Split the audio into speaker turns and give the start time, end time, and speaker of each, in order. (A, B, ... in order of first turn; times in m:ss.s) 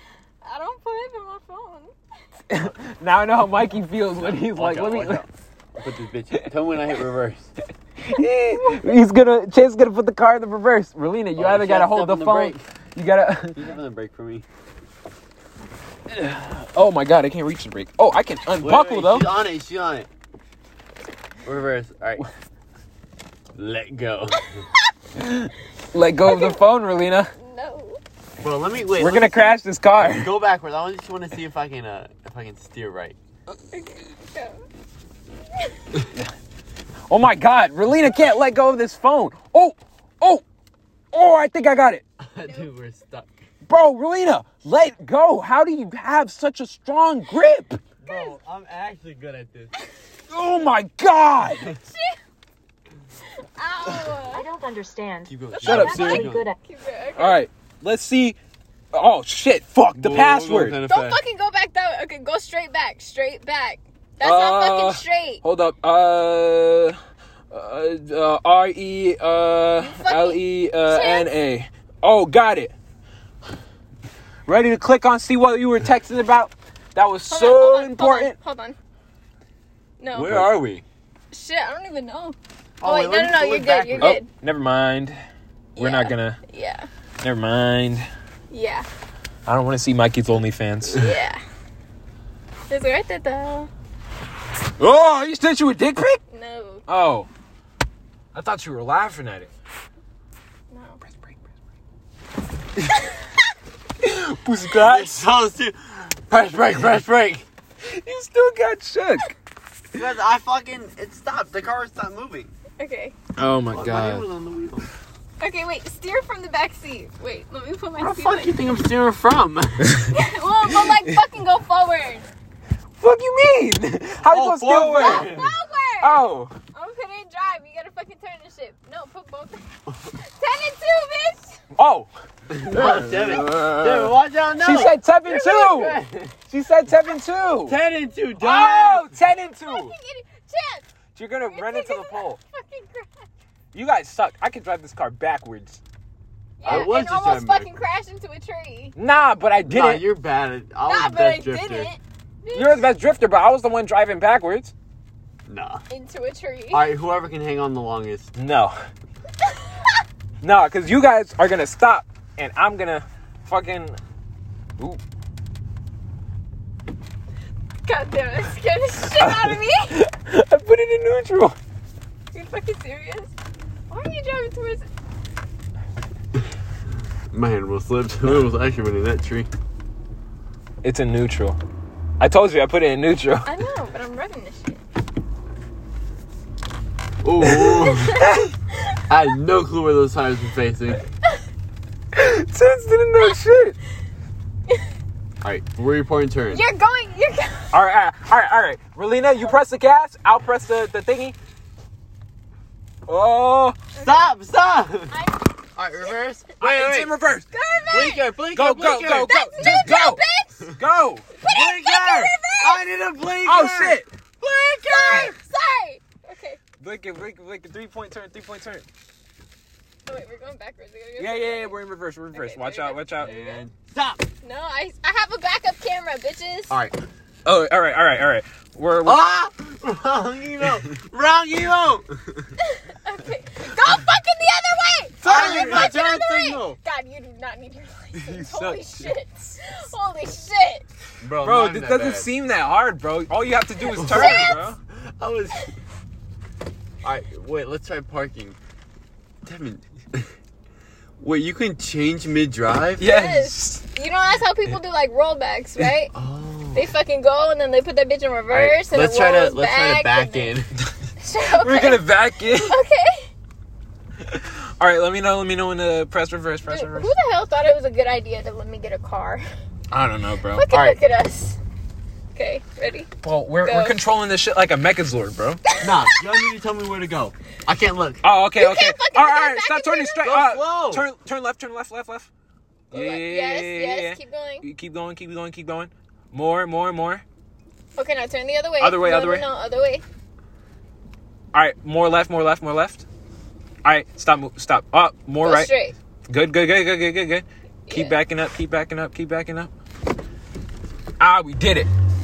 0:00.4-0:01.9 A
0:02.5-0:05.2 B
0:04.2-0:07.5 C
0:08.0-0:13.6 B
0:08.6-0:08.9 A
0:11.4-0:12.6 C
0:13.5-0:14.4 C
0:16.1-0:19.3 B
0:18.6-0:20.1 C
0:21.4-0:22.2 C
0:23.5-0:24.7 C
0:25.9-0:27.3 B
0:26.2-0:26.6 A
0:27.3-0:28.0 A
0:28.4-0:33.2 C
0:29.0-0:30.3 B
0:33.7-0:34.6 A
0:37.1-0:40.4 B
0:41.1-0:42.0 B
0:42.2-0:43.4 C
0:43.6-0:47.8 B
0:48.0-0:49.7 C
0:48.0-0:48.3 A
0:50.3-0:51.7 B
0:51.8-0:52.2 A
0:53.6-0:54.4 A
0:54.3-0:56.6 D
0:55.3-0:56.5 C
0:55.6-0:57.4 A
0:55.6-0:56.3 B
0:57.2-0:58.4 B
0:58.9-1:00.8 B
0:59.9-1:01.2 C
1:00.9-1:05.4 A
1:04.2-1:07.0 B
1:07.5-1:12.7 B
1:09.8-1:11.3 A
1:14.4-1:18.4 B
1:17.3-1:18.8 A
1:20.0-1:20.4 A
1:20.1-1:20.8 C
1:21.3-1:24.3 A
1:22.8-1:24.2 C
1:24.0-1:25.2 B
1:25.8-1:26.9 A
1:25.8-1:26.4 B
1:27.2-1:28.1 B
1:28.5-1:28.8 A
1:29.4-1:31.1 B
1:30.9-1:31.4 A
1:32.7-1:33.7 A
1:34.8-1:36.2 B
1:36.3-1:36.8 A
1:36.9-1:37.3 B
1:38.3-1:39.5 B
1:40.7-1:41.0 A
1:41.0-1:41.4 B
1:44.0-1:45.2 B
1:44.7-1:47.4 C
1:47.8-1:49.3 B
1:49.9-1:52.5 C
1:52.8-1:53.1 A
1:53.4-1:54.3 B
1:53.7-1:54.9 C
1:55.4-1:58.6 A
1:58.0-2:00.0 C
2:00.1-2:02.3 A
2:00.9-2:01.1 B
2:03.0-2:05.3 B
2:04.2-2:05.6 C
2:04.9-2:11.6 A
2:06.0-2:06.5 B
2:11.7-2:12.1 B
2:12.5-2:16.4 C
2:12.7-2:17.8 B
2:15.3-2:15.8 A
2:17.6-2:19.1 C
2:18.4-2:19.9 B
2:19.6-2:20.8 A
2:21.1-2:22.4 B
2:21.5-2:23.1 A
2:23.7-2:25.8 B
2:26.6-2:28.9 A
2:26.6-2:27.7 C
2:29.0-2:30.1 B
2:29.6-2:31.9 C
2:30.8-2:32.9 A
2:32.5-2:34.7 B
2:35.4-2:35.8 C
2:35.9-2:36.9 A
2:36.7-2:38.3 C
2:38.4-2:38.8 B
2:39.4-2:39.9 A
2:40.4-2:44.0 B
2:47.8-2:50.0 A
2:49.2-2:51.6 B
2:52.3-2:53.3 A
2:53.9-2:54.8 A
2:57.3-2:59.5 C
3:00.8-3:01.6 B
3:02.2-3:03.5 B
3:03.4-3:04.8 A
3:07.2-3:08.3 C
3:07.4-3:08.5 B
3:07.8-3:09.0 A
3:09.1-3:11.0 C
3:12.1-3:13.8 B
3:15.4-3:16.6 C
3:16.5-3:17.7 A
3:17.7-3:21.4 B
3:23.1-3:23.8 B
3:23.9-3:24.2 A
3:23.9-3:25.1 C
3:25.1-3:25.4 A
3:25.8-3:27.1 C
3:26.6-3:27.5 B
3:27.5-3:28.3 A
3:27.8-3:30.0 C
3:28.5-3:31.3 B
3:29.0-3:30.7 A
3:31.4-3:32.8 A
3:31.4-3:35.3 C
3:33.4-3:34.1 B
3:34.4-3:36.6 A
3:36.8-3:38.9 B
3:40.0-3:41.7 A
3:41.2-3:43.4 B
3:42.3-3:43.6 A
3:43.2-3:44.2 C
3:44.4-3:46.7 A
3:46.7-3:47.0 C
3:47.4-3:49.2 B
3:49.0-3:52.5 C
3:52.6-4:00.8 A
3:55.2-3:55.9 B
3:55.2-3:56.8 C
3:58.2-3:59.1 B
4:01.2-4:02.3 C
4:01.4-4:04.8 B
4:03.8-4:04.7 A
4:03.9-4:05.7 C
4:07.0-4:08.6 C
4:09.4-4:10.3 C
4:11.2-4:13.1 C
4:13.0-4:13.8 B
4:13.0-4:16.1 A
4:16.1-4:16.9 C
4:16.7-4:20.6 A
4:18.5-4:20.7 C
4:21.2-4:23.3 A
4:21.6-4:22.8 B
4:24.2-4:27.1 B
4:26.7-4:29.4 A
4:29.9-4:30.9 B
4:30.5-4:31.6 A
4:32.3-4:33.1 A
4:33.2-4:35.6 B
4:33.6-4:34.0 A
4:35.7-4:36.3 A
4:35.8-4:38.2 C
4:38.2-4:42.3 B
4:38.6-4:40.3 A
4:40.2-4:41.0 C
4:42.9-4:44.6 A
4:42.9-4:47.2 B
4:48.0-4:50.0 A
4:48.8-4:49.5 B
4:51.5-4:53.0 B
4:53.8-4:55.7 B
4:55.4-4:56.0 A
4:56.3-4:59.7 B
4:57.8-4:58.2 A
5:01.2-5:01.9 B